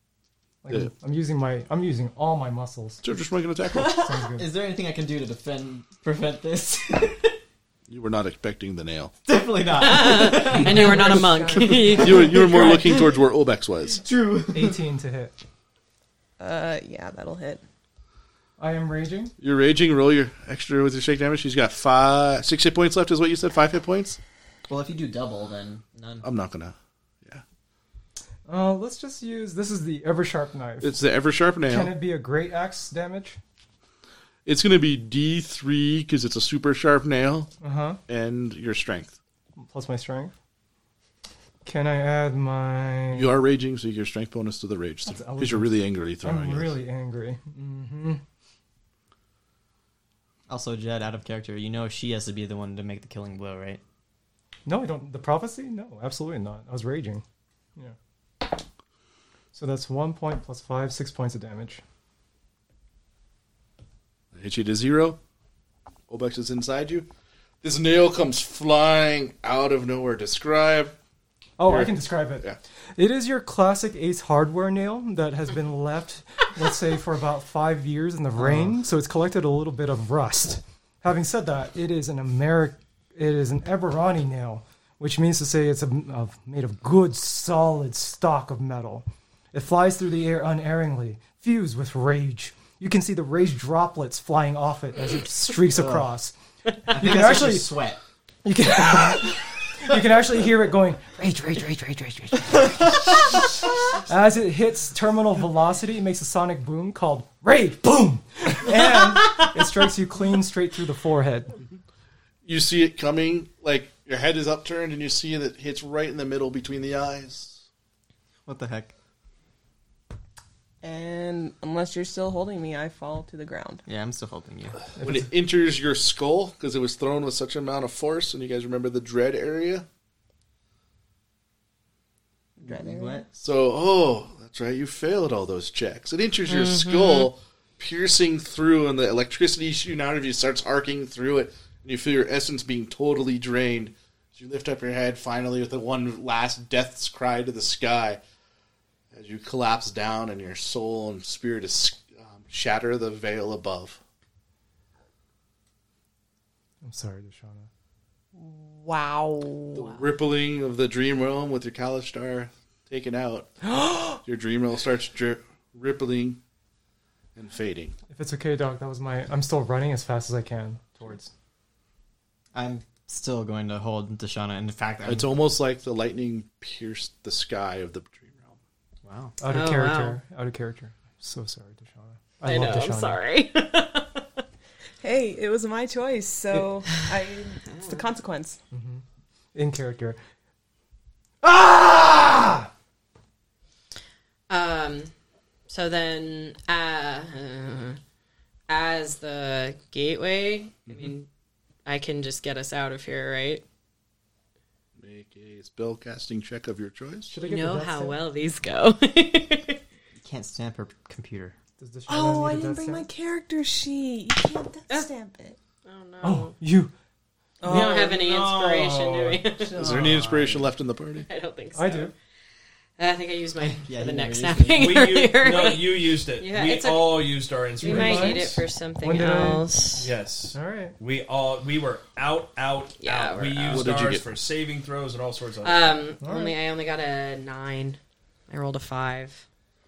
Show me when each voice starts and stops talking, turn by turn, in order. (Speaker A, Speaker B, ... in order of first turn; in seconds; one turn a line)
Speaker A: 0.6-3.0
Speaker B: 3.0-4.1
Speaker A: 3.9-4.5
Speaker C: 4.0-7.4
Speaker B: 7.9-9.1
Speaker C: 9.3-11.6
Speaker D: 9.8-12.9
Speaker E: 10.5-12.9
Speaker B: 12.0-14.0
Speaker C: 13.9-14.8
Speaker A: 14.5-15.3
Speaker E: 16.4-17.6
Speaker A: 18.6-19.3
Speaker B: 19.4-24.2
Speaker C: 24.7-26.3
Speaker B: 26.2-27.4
Speaker A: 28.5-31.0
Speaker B: 30.8-31.9
Speaker A: 31.7-33.4
Speaker B: 34.5-37.5
Speaker A: 37.6-38.0
Speaker B: 38.1-39.2
Speaker A: 39.6-40.3
Speaker A: 41.6-43.3
Speaker B: 43.1-46.8
Speaker A: 45.1-48.2
Speaker C: 50.5-53.8
Speaker A: 54.7-57.2
Speaker A: 59.5-61.8
Speaker B: 64.3-65.2
Speaker B: 66.1-67.1
Speaker B: 67.6-71.0
Speaker A: 71.6-72.5
Speaker B: 71.6-72.6
Speaker A: 73.0-96.3
Speaker C: 95.7-96.1
Speaker A: 96.9-97.7
Speaker C: 96.9-98.0
Speaker A: 98.5-103.4
Speaker A: 104.1-111.6
Speaker B: 112.5-117.7
Speaker C: 118.5-118.9
Speaker E: 120.8-123.8
Speaker C: 123.9-124.8
Speaker A: 125.0-125.3
Speaker B: 125.0-129.9
Speaker E: 132.6-133.3
Speaker C: 132.6-133.3
Speaker B: 133.4-148.2
Speaker D: 136.5-137.3
Speaker B: 149.1-154.0
Speaker A: 156.8-157.7
Speaker E: 158.3-160.0
Speaker B: 159.7-163.5
Speaker A: 163.7-164.2
Speaker B: 164.2-166.4
Speaker B: 167.4-168.0
Speaker A: 168.1-171.3
Speaker C: 172.5-175.4
Speaker B: 175.1-178.6
Speaker C: 179.0-179.4
Speaker A: 179.4-183.2
Speaker D: 179.5-180.2
Speaker D: 182.4-184.3
Speaker E: 185.0-188.6
Speaker D: 187.7-188.0
Speaker A: 188.7-189.0
Speaker A: 189.6-190.2
Speaker A: 191.4-192.7
Speaker D: 194.5-195.1
Speaker D: 195.7-198.0
Speaker D: 198.7-201.3
Speaker B: 200.9-201.1
Speaker D: 201.9-203.6
Speaker B: 205.0-207.3
Speaker A: 207.3-208.2
Speaker D: 207.4-209.8
Speaker C: 210.2-211.6
Speaker A: 211.8-213.1
Speaker E: 212.1-215.6
Speaker D: 215.8-216.6
Speaker A: 216.2-216.9
Speaker F: 217.6-220.1
Speaker D: 217.6-220.2
Speaker B: 219.8-221.3
Speaker A: 219.8-220.2
Speaker D: 221.2-222.1
Speaker A: 221.8-222.1
Speaker D: 223.0-230.1
Speaker C: 223.6-225.1
Speaker F: 224.8-228.6
Speaker A: 227.8-229.7
Speaker F: 230.0-236.1
Speaker A: 230.5-231.0
Speaker D: 233.0-233.9
Speaker B: 233.7-234.3
Speaker D: 235.6-239.4
Speaker A: 236.2-236.6